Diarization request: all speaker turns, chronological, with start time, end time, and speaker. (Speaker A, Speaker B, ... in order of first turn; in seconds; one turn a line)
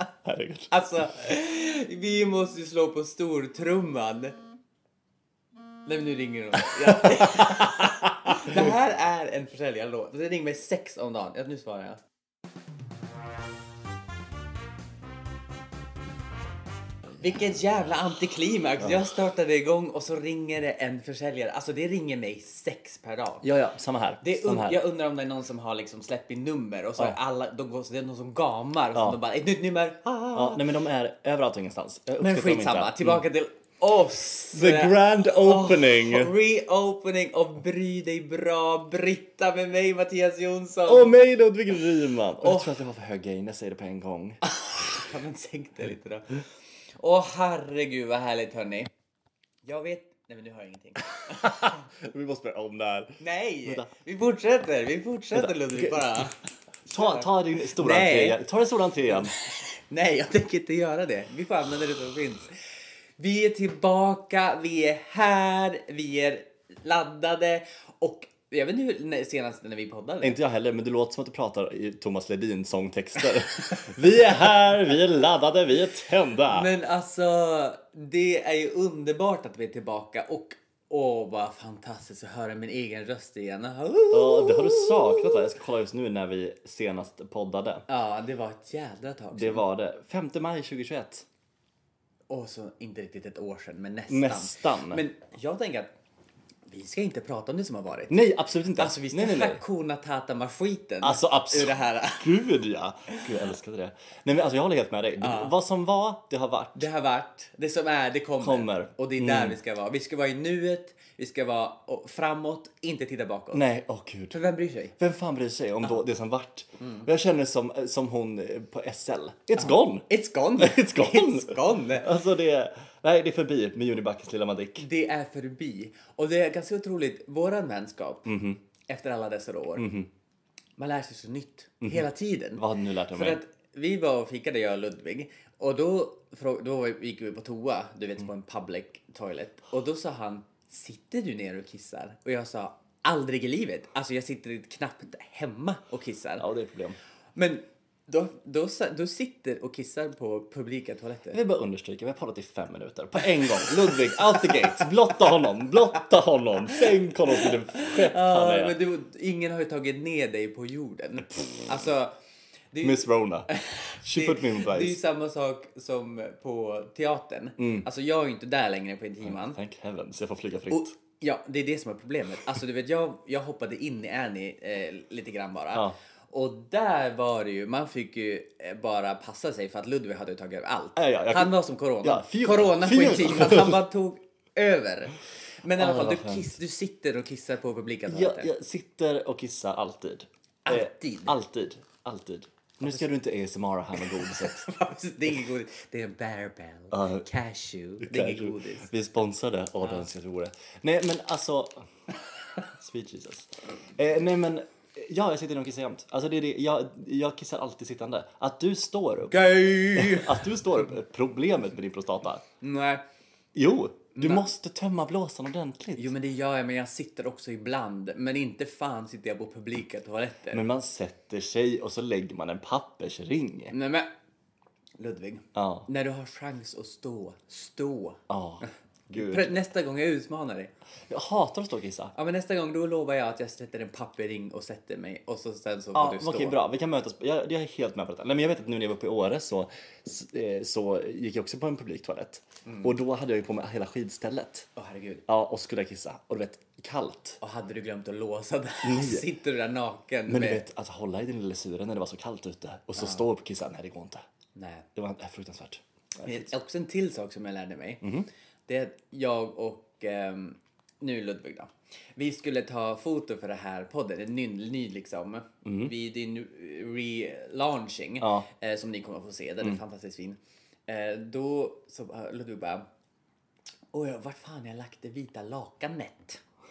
Speaker A: 0.2-0.7
Speaker B: 0.7-4.4
Speaker B: 5.8-12.0
Speaker A: 6.8-8.7
Speaker B: 17.2-23.5
Speaker A: 23.4-24.8
Speaker B: 24.2-30.7
Speaker A: 30.3-33.2
Speaker B: 32.2-41.2
Speaker A: 34.5-36.3
Speaker A: 40.9-44.4
Speaker B: 42.4-42.7
Speaker B: 44.4-48.9
Speaker B: 49.6-51.8
Speaker A: 51.1-53.9
Speaker B: 53.2-58.4
Speaker A: 55.3-56.3
Speaker A: 56.9-59.4
Speaker B: 59.1-62.6
Speaker B: 63.2-70.4
Speaker A: 70.2-76.7
Speaker B: 76.5-85.5
Speaker A: 84.1-87.8
Speaker B: 87.9-89.7
Speaker A: 89.3-91.2
Speaker B: 92.3-95.9
Speaker A: 94.1-95.0
Speaker B: 96.7-102.5
Speaker A: 98.1-99.6
Speaker A: 101.0-106.9
Speaker B: 105.2-105.5
Speaker B: 106.8-113.6
Speaker A: 108.4-109.6
Speaker A: 113.5-114.4
Speaker B: 114.3-115.0
Speaker A: 115.0-124.9
Speaker B: 116.8-117.1
Speaker B: 119.6-122.1
Speaker B: 124.8-128.3
Speaker A: 128.2-128.6
Speaker B: 128.9-129.9
Speaker A: 129.8-130.1
Speaker B: 130.8-146.5
Speaker A: 131.8-133.4
Speaker A: 146.4-147.0
Speaker B: 147.3-151.4
Speaker A: 151.3-158.7
Speaker B: 153.4-154.9
Speaker B: 157.4-162.1
Speaker B: 162.7-169.6
Speaker A: 162.8-163.5
Speaker A: 164.0-165.0
Speaker A: 167.6-167.9
Speaker A: 169.2-170.9
Speaker B: 170.7-188.5
Speaker A: 180.9-183.8
Speaker A: 185.8-186.5
Speaker A: 188.1-194.7
Speaker B: 190.7-191.3
Speaker B: 193.9-198.9
Speaker A: 196.9-197.3
Speaker A: 198.0-201.9
Speaker A: 202.6-212.4
Speaker B: 209.3-210.6
Speaker B: 212.6-213.0
Speaker A: 213.5-216.1
Speaker B: 214.1-214.5
Speaker B: 215.9-220.6
Speaker A: 220.5-223.7
Speaker B: 223.7-224.1
Speaker B: 225.0-230.7
Speaker A: 225.5-225.9
Speaker A: 228.3-229.6
Speaker A: 231.1-232.1
Speaker B: 232.1-236.6
Speaker A: 235.9-244.7
Speaker B: 242.6-242.9
Speaker B: 244.8-245.2
Speaker A: 245.3-247.4
Speaker B: 247.4-250.6
Speaker A: 248.8-249.2
Speaker A: 250.3-254.2
Speaker B: 253.0-253.3
Speaker B: 254.5-254.9
Speaker A: 254.9-256.5
Speaker B: 256.2-258.1
Speaker A: 258.0-258.3
Speaker B: 258.7-272.8
Speaker A: 265.6-265.9
Speaker A: 268.2-268.4
Speaker B: 273.9-276.4